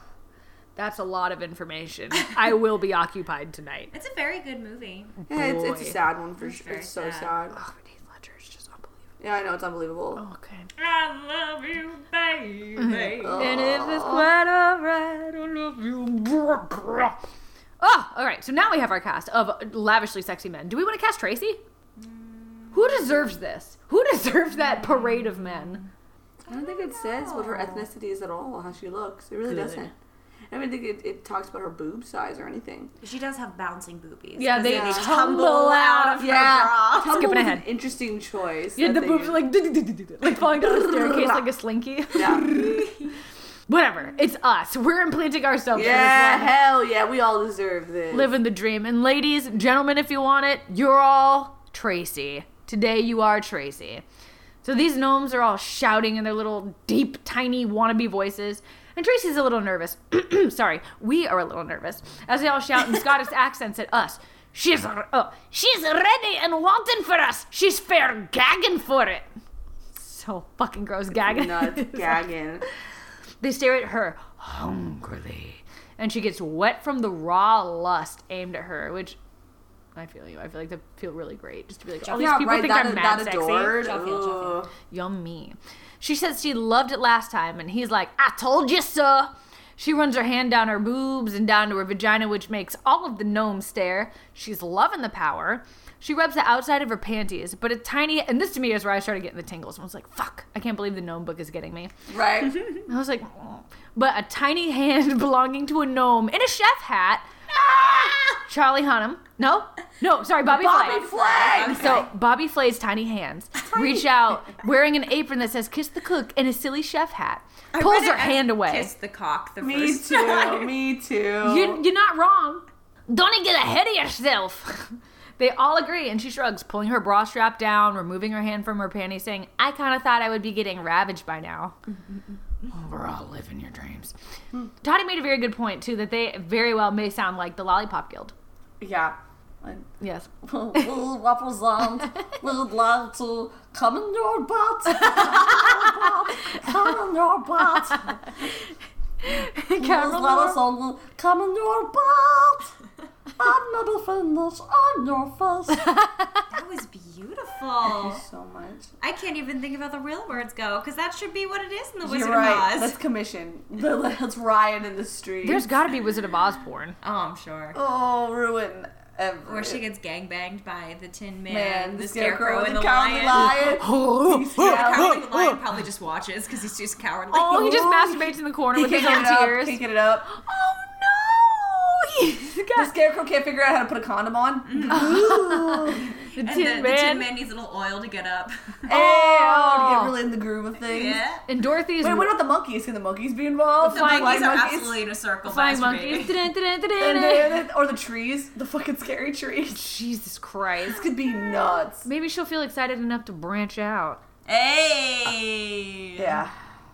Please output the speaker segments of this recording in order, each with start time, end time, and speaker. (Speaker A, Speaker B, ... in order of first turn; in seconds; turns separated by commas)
Speaker A: 0.8-3.9, Speaker B: 3.9-5.2, Speaker A: 5.2-6.0, Speaker C: 5.3-7.6, Speaker B: 6.4-7.3, Speaker A: 7.5-9.0, Speaker C: 9.2-10.2, Speaker A: 10.2-10.7, Speaker B: 10.8-13.4, Speaker A: 12.8-17.2, Speaker C: 13.2-14.3, Speaker A: 17.8-21.6, Speaker B: 22.0-23.4, Speaker A: 22.7-25.8, Speaker B: 24.6-25.8, Speaker C: 26.5-29.9, Speaker B: 26.5-27.9, Speaker A: 29.5-29.9, Speaker C: 30.5-32.9, Speaker B: 33.0-37.3, Speaker A: 34.4-37.7, Speaker C: 34.6-35.5, Speaker C: 36.2-39.4, Speaker A: 38.8-42.9, Speaker C: 40.3-41.4, Speaker C: 42.1-42.5, Speaker B: 42.5-43.1, Speaker A: 43.7-46.5, Speaker C: 45.7-48.3, Speaker A: 48.1-54.0, Speaker A: 54.6-69.3, Speaker A: 69.9-72.2, Speaker C: 71.2-72.6, Speaker A: 73.4-79.2, Speaker A: 79.9-83.8, Speaker B: 82.0-82.5, Speaker C: 82.1-84.7, Speaker B: 83.7-84.6, Speaker A: 84.9-101.9, Speaker C: 102.1-102.6, Speaker A: 102.7-107.8, Speaker C: 107.5-108.2, Speaker A: 108.3-111.0, Speaker C: 110.4-112.1, Speaker B: 110.7-112.1, Speaker A: 111.6-118.9, Speaker B: 117.7-120.8, Speaker C: 119.6-121.8, Speaker A: 121.4-131.8, Speaker A: 132.7-134.1, Speaker A: 134.8-138.3, Speaker C: 138.8-139.9, Speaker A: 140.0-140.9, Speaker C: 140.4-148.5, Speaker A: 142.1-142.3, Speaker A: 144.9-145.9, Speaker A: 147.8-148.1, Speaker A: 149.2-150.6, Speaker C: 149.8-152.7, Speaker C: 153.4-155.9, Speaker A: 155.7-156.4, Speaker B: 156.5-158.2, Speaker C: 157.8-158.9, Speaker B: 159.0-163.0, Speaker C: 162.0-165.7, Speaker A: 165.4-166.9, Speaker B: 167.0-167.8, Speaker C: 167.7-169.8, Speaker B: 169.4-173.8, Speaker C: 171.5-175.2, Speaker A: 173.3-175.6, Speaker B: 174.5-177.9, Speaker A: 177.3-182.9, Speaker C: 177.4-180.3, Speaker C: 182.7-186.1, Speaker B: 184.7-185.2, Speaker A: 184.9-187.3, Speaker B: 186.0-188.8, Speaker A: 188.9-190.2, Speaker C: 188.9-191.2, Speaker B: 190.8-191.4, Speaker A: 191.5-192.4, Speaker C: 192.0-195.0, Speaker B: 193.8-196.5, Speaker A: 193.8-194.4, Speaker A: 195.4-197.7, Speaker C: 197.0-199.8, Speaker A: 199.7-201.1, Speaker C: 200.8-202.1, Speaker A: 202.0-204.2, Speaker B: 204.4-206.4, Speaker C: 206.2-206.5